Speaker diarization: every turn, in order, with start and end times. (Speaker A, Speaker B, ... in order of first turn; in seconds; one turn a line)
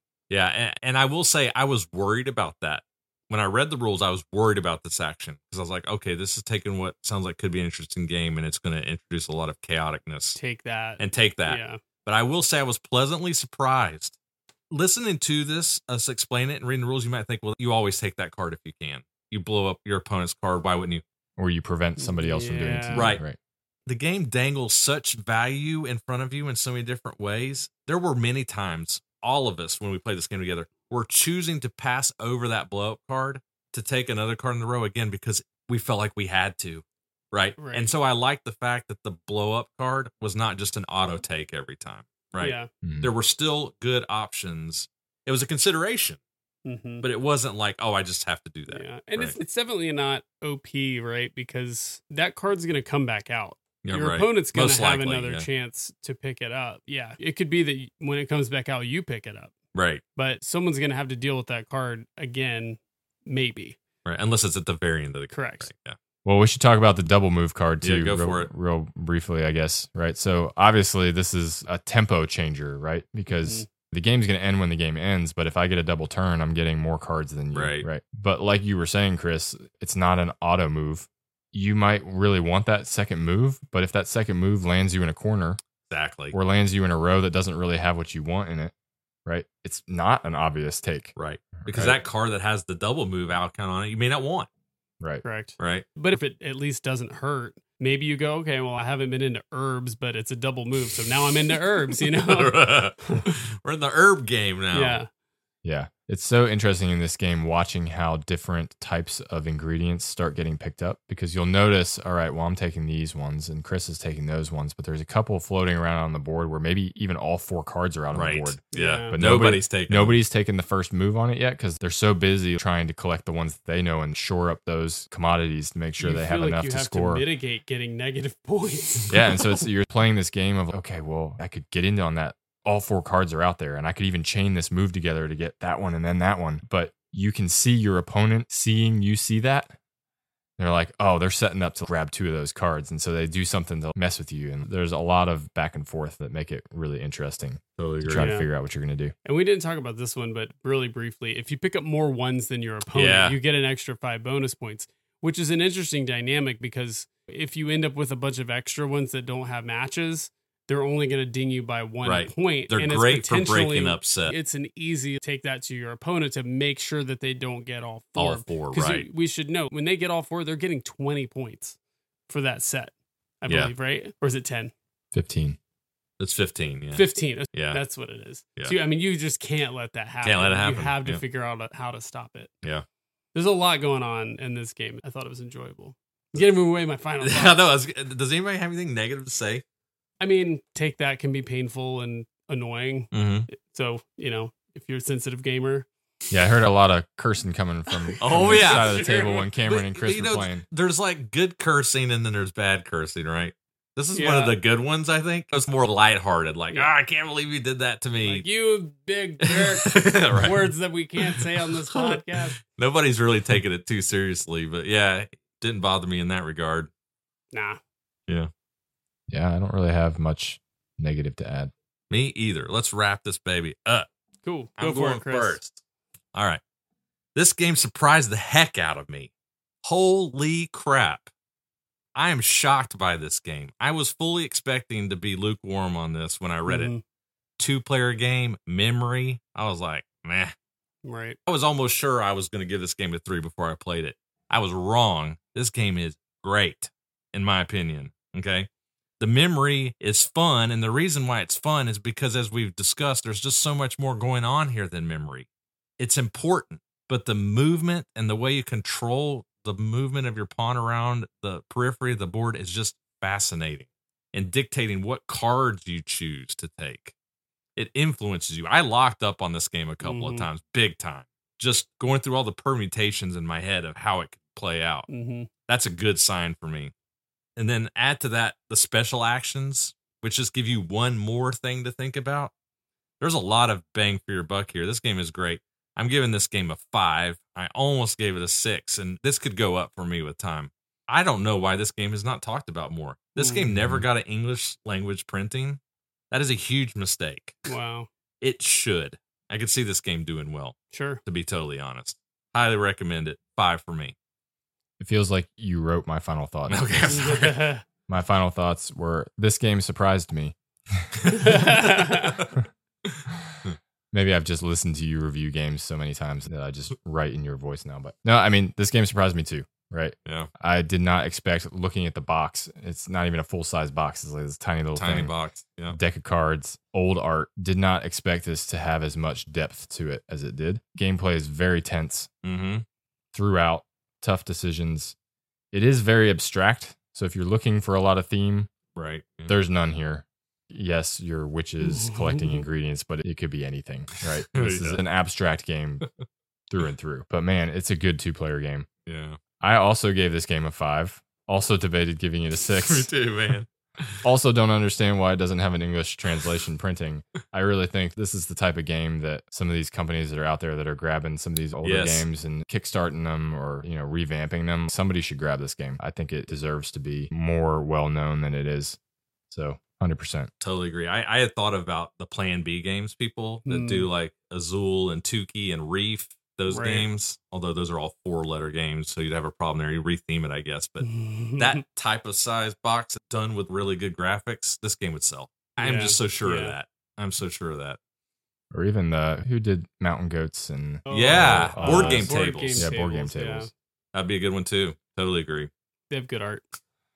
Speaker A: 0.3-10.4
Speaker B: 10.4-11.8
Speaker A: 11.0-14.2
Speaker A: 14.7-21.0
Speaker C: 21.4-23.4
Speaker B: 22.0-23.2
Speaker A: 22.9-23.2
Speaker A: 23.9-46.2
Speaker B: 37.6-37.9
Speaker B: 42.4-42.7
Speaker C: 42.8-43.1
Speaker B: 46.7-47.1
Speaker A: 47.0-49.4
Speaker B: 48.7-59.5
Speaker A: 53.8-55.5
Speaker A: 59.7-60.0
Speaker B: 60.2-63.8
Speaker A: 64.0-66.0
Speaker B: 65.3-65.7
Speaker C: 66.2-85.6
Speaker A: 67.8-68.5
Speaker B: 73.3-73.7
Speaker A: 77.5-77.9
Speaker A: 85.9-86.4
Speaker C: 86.3-88.7
Speaker C: 89.3-92.0
Speaker A: 91.2-94.5
Speaker B: 95.2-103.2
Speaker A: 95.6-95.9
Speaker A: 102.2-105.0
Speaker B: 104.7-105.1
Speaker C: 105.6-127.2
Speaker A: 118.1-120.2
Speaker B: 118.7-119.2
Speaker B: 126.0-129.3
Speaker C: 129.1-139.8
Speaker C: 140.6-149.1
Speaker A: 147.8-148.3
Speaker B: 148.2-148.5
Speaker B: 149.2-171.8
Speaker A: 152.9-153.4
Speaker A: 162.0-164.3
Speaker A: 168.2-169.1
Speaker B: 172.3-174.7
Speaker C: 175.1-175.6
Speaker A: 176.2-177.8
Speaker B: 176.9-182.5
Speaker A: 180.2-181.2
Speaker B: 183.3-187.7
Speaker A: 187.2-189.6
Speaker B: 190.2-195.9
Speaker A: 193.1-193.5
Speaker C: 196.3-200.7
Speaker B: 198.1-199.3
Speaker A: 198.2-208.5
Speaker B: 204.2-204.6
Speaker B: 208.2-212.6
Speaker A: 209.5-210.7
Speaker A: 211.4-216.9
Speaker B: 217.5-217.8
Speaker C: 219.3-221.7
Speaker A: 222.1-224.1
Speaker B: 224.4-225.6
Speaker A: 224.8-225.8
Speaker A: 226.3-226.6
Speaker A: 227.3-229.3
Speaker A: 229.8-231.3
Speaker A: 232.2-236.9
Speaker B: 236.7-237.0
Speaker A: 237.6-240.5
Speaker B: 241.1-241.4
Speaker A: 241.5-248.7
Speaker A: 249.2-255.5
Speaker A: 256.0-267.1
Speaker A: 267.8-275.1
Speaker B: 270.0-270.5
Speaker B: 275.1-275.5
Speaker A: 275.7-276.9
Speaker A: 277.6-282.5
Speaker A: 283.2-295.8
Speaker B: 293.4-293.7
Speaker C: 293.7-294.1
Speaker A: 296.3-297.6
Speaker B: 297.7-298.1
Speaker A: 298.4-304.1
Speaker B: 300.9-301.2
Speaker C: 305.0-307.1
Speaker A: 306.7-307.7
Speaker B: 307.1-307.8
Speaker C: 308.1-311.2
Speaker B: 311.3-312.4
Speaker A: 312.1-312.5
Speaker A: 313.1-313.8
Speaker C: 314.1-325.4
Speaker A: 324.9-326.0
Speaker C: 325.9-332.3
Speaker A: 332.4-332.9
Speaker C: 333.3-335.1
Speaker C: 335.7-338.7
Speaker A: 338.9-339.6
Speaker C: 339.5-346.1
Speaker B: 341.9-342.6
Speaker A: 344.2-345.0
Speaker C: 346.7-348.9
Speaker A: 349.1-349.4
Speaker C: 349.6-353.1
Speaker A: 352.6-354.2
Speaker C: 354.2-369.0
Speaker A: 361.8-362.3
Speaker C: 369.5-370.5
Speaker A: 370.6-388.0
Speaker B: 373.7-374.1
Speaker B: 376.7-377.1
Speaker B: 381.0-381.8
Speaker B: 385.8-386.7
Speaker C: 388.7-393.7
Speaker B: 391.1-393.7
Speaker A: 391.1-392.9
Speaker A: 394.1-395.7
Speaker B: 396.1-396.7